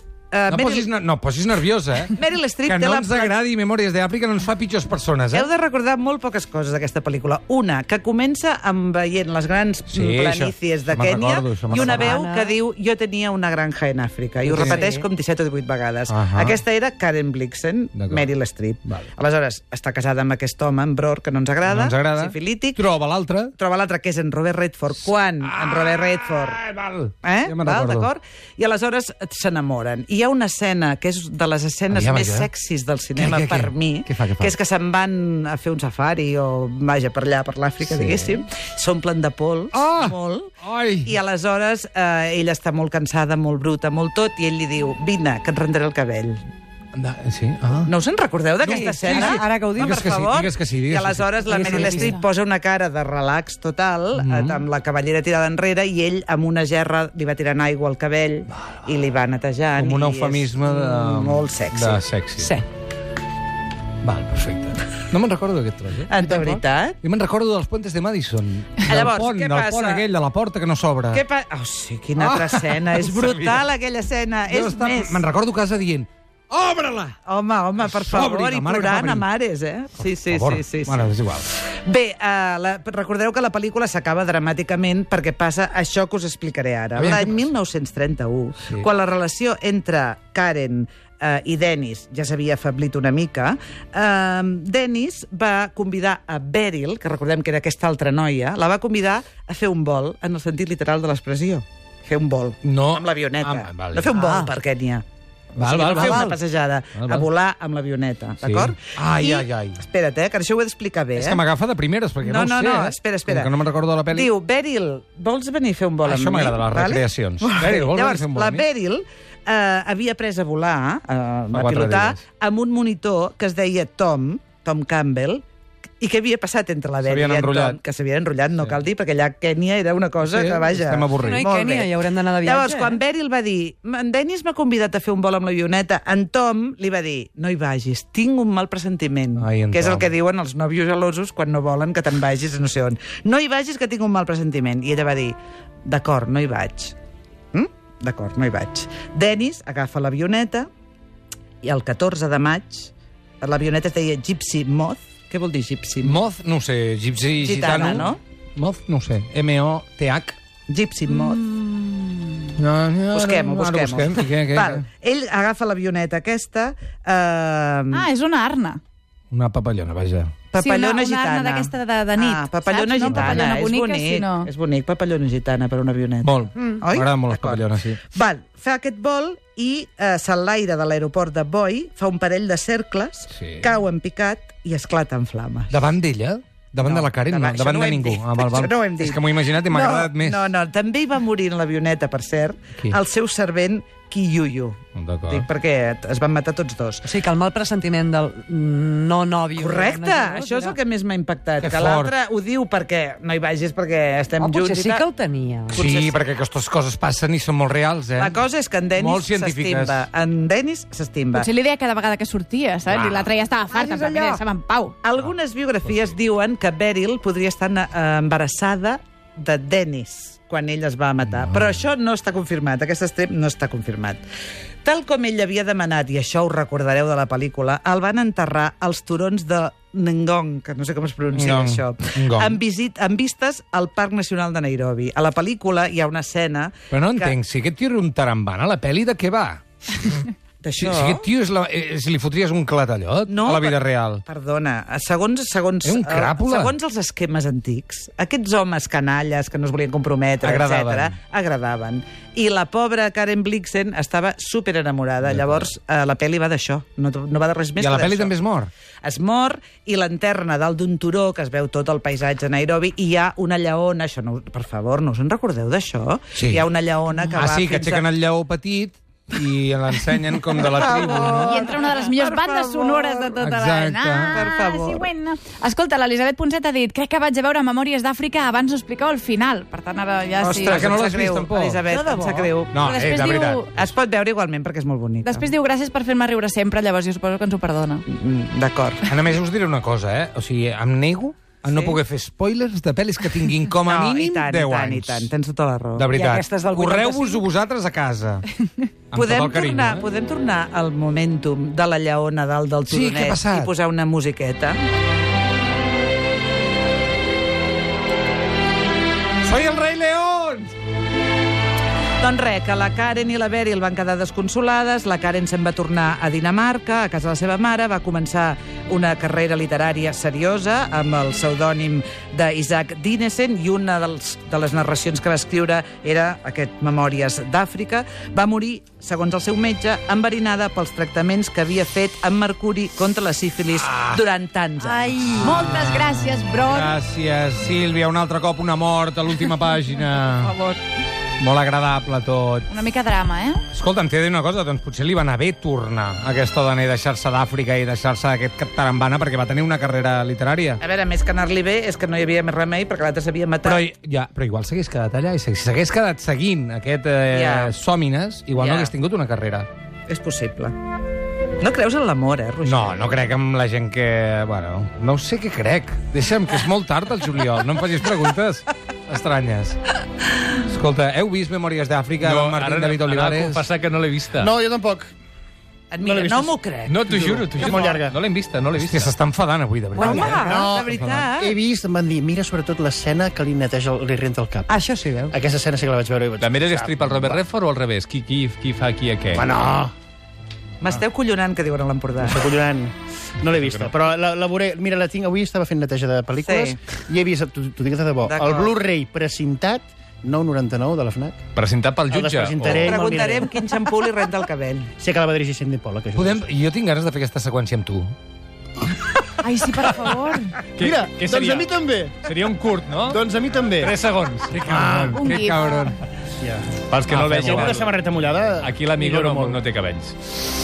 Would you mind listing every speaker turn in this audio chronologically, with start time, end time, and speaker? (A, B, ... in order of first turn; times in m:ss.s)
0:00.3-0:00.9 A
0:00.5-0:05.5 B
0:02.1-0:03.4 A
0:05.3-0:22.8 A
0:09.9-0:12.1 B
0:11.7-0:12.6 C
0:14.4-0:15.1 C
0:14.5-0:14.8 B
0:16.1-0:16.6 B
0:18.0-0:18.2 B
0:21.6-0:23.5 B
0:23.6-0:26.6 A
0:25.4-0:28.1 B
0:27.2-0:40.5 A
0:31.9-0:32.5 B
0:33.2-0:34.5 B
0:37.8-0:38.3 B
0:39.7-0:41.1 B
0:41.0-0:46.4 A
0:47.0-0:47.9 B
0:47.9-1:02.0 A
0:48.6-0:51.5 B
0:48.6-0:50.2 C
0:51.5-0:52.2 C
0:51.6-0:52.0 D
0:54.2-0:54.6 B
0:58.6-0:58.9 B
0:59.8-1:02.5 B
1:02.4-1:02.6 C
1:04.0-1:06.4 B
1:06.1-1:07.0 A
1:07.0-1:11.2 B
1:08.9-1:10.0 A
1:11.1-1:15.2 A
1:12.2-1:13.6 B
1:14.5-1:17.2 B
1:17.2-1:45.0 A
1:17.8-1:19.2 B
1:20.2-1:21.5 B
1:27.0-1:27.5 B
1:42.6-1:44.1 B
1:44.1-1:44.5 C
1:45.6-1:51.4 A
1:45.6-1:46.4 B
1:46.0-1:46.3 C
1:47.0-1:47.3 B
1:48.4-1:49.8 B
1:51.1-1:54.3 B
1:52.2-1:53.5 A
1:54.1-2:05.4 A
1:56.0-1:58.7 B
2:01.5-2:02.2 B
2:06.0-2:11.9 A
2:07.0-2:07.8 B
2:10.2-2:11.5 B
2:11.2-2:13.0 C
2:12.4-2:25.4 A
2:19.4-2:20.1 B
2:25.9-2:27.0 A
2:27.5-2:30.7 A
2:31.6-2:36.2 A
2:36.0-2:40.4 B
2:37.4-2:38.2 A
2:40.7-2:41.4 A
2:41.2-2:42.2 D
2:42.6-2:44.8 B
2:43.1-2:48.0 A
2:47.9-2:48.8 D
2:49.3-2:50.4 B
2:50.5-3:05.8 A
2:50.6-2:54.5 D
2:53.1-2:53.4 B
2:56.2-2:58.0 B
3:03.3-3:03.7 B
3:05.7-3:10.4 B
3:06.8-3:14.8 A
3:15.0-3:15.4 B
3:15.3-3:17.1 A
3:17.0-3:20.8 C
3:19.6-3:25.0 A
3:21.6-3:22.1 B
3:24.4-3:25.8 C
3:25.7-3:26.2 A
3:25.7-3:28.4 B
3:28.2-3:31.5 A
3:29.0-3:30.0 B
3:31.3-3:35.0 D
3:32.9-3:33.3 B
3:33.7-3:34.4 A
3:35.0-3:44.2 A
3:44.8-3:57.4 A
3:51.3-3:52.6 B
3:56.9-4:00.3 B
4:00.6-4:01.2 A
4:00.8-4:04.2 B
4:03.3-4:18.3 A
4:05.8-4:06.7 B
4:10.4-4:11.2 B
4:15.2-4:15.7 B
4:17.8-4:18.7 B
4:19.0-4:28.0 A
4:26.4-4:26.6 B
4:27.3-4:31.6 B
4:30.5-4:33.4 A
4:31.3-4:41.0 D
4:33.4-4:34.3 B
4:34.3-4:35.1 A
4:40.4-4:42.7 A
4:40.6-4:41.8 B
4:41.9-4:43.7 D
4:42.2-4:42.5 C
4:42.7-4:43.9 B
4:43.8-4:45.4 A
4:45.2-4:48.0 D
4:48.1-4:49.1 A
4:49.1-4:55.3 B
4:51.7-4:52.0 A
4:53.8-4:56.1 A
4:56.0-4:58.5 B
4:56.1-4:57.4 C
4:59.1-5:00.1 B
4:59.1-5:04.8 A
5:02.9-5:03.7 B
5:09.4-5:10.7 B
5:12.2-5:35.7 A
5:33.7-5:34.2 B
5:34.8-5:35.7 C
5:35.3-5:37.0 D
5:35.7-5:40.6 B
5:40.4-5:40.8 D
5:41.4-5:42.7 B
5:42.7-5:43.6 D
5:43.7-5:50.8 B
5:50.8-5:53.8 A
5:53.6-5:59.7 B
5:57.3-5:57.8 A
5:58.6-5:58.9 A
6:00.1-6:00.7 A
6:01.6-6:03.3 A
6:02.6-6:09.8 B
6:10.5-6:13.6 B
6:12.2-6:14.5 E
6:14.4-6:15.1 F
6:15.9-6:17.1 A
6:16.0-6:18.2 F
6:16.9-6:19.1 E
6:18.7-6:20.2 B
6:20.0-6:21.6 A
6:20.0-6:20.3 C
6:20.0-6:24.8 F
6:24.7-6:25.3 C
6:25.3-6:27.4 F
6:26.4-6:29.5 E
6:29.3-6:29.9 F
6:30.8-6:32.4 A
6:32.2-6:41.4 F
6:36.4-6:36.8 A
6:38.2-6:38.8 A
6:41.6-6:42.5 B
6:42.0-6:42.9 E
6:42.1-6:43.5 F
6:42.7-6:44.9 A
6:45.0-6:46.5 F
6:46.2-6:48.1 B
6:49.4-6:50.6 D
6:50.8-6:51.7 E
6:50.8-6:52.4 F
6:52.3-6:53.1 E
6:52.4-6:53.2 B
6:53.1-6:54.0 F
6:53.8-6:56.0 B
6:54.0-6:55.2 E
6:54.6-6:55.2 F
6:55.1-6:56.0 D
6:56.4-6:59.6 F
6:56.9-6:58.0 E
6:57.1-6:57.7 B
6:58.6-7:00.2 E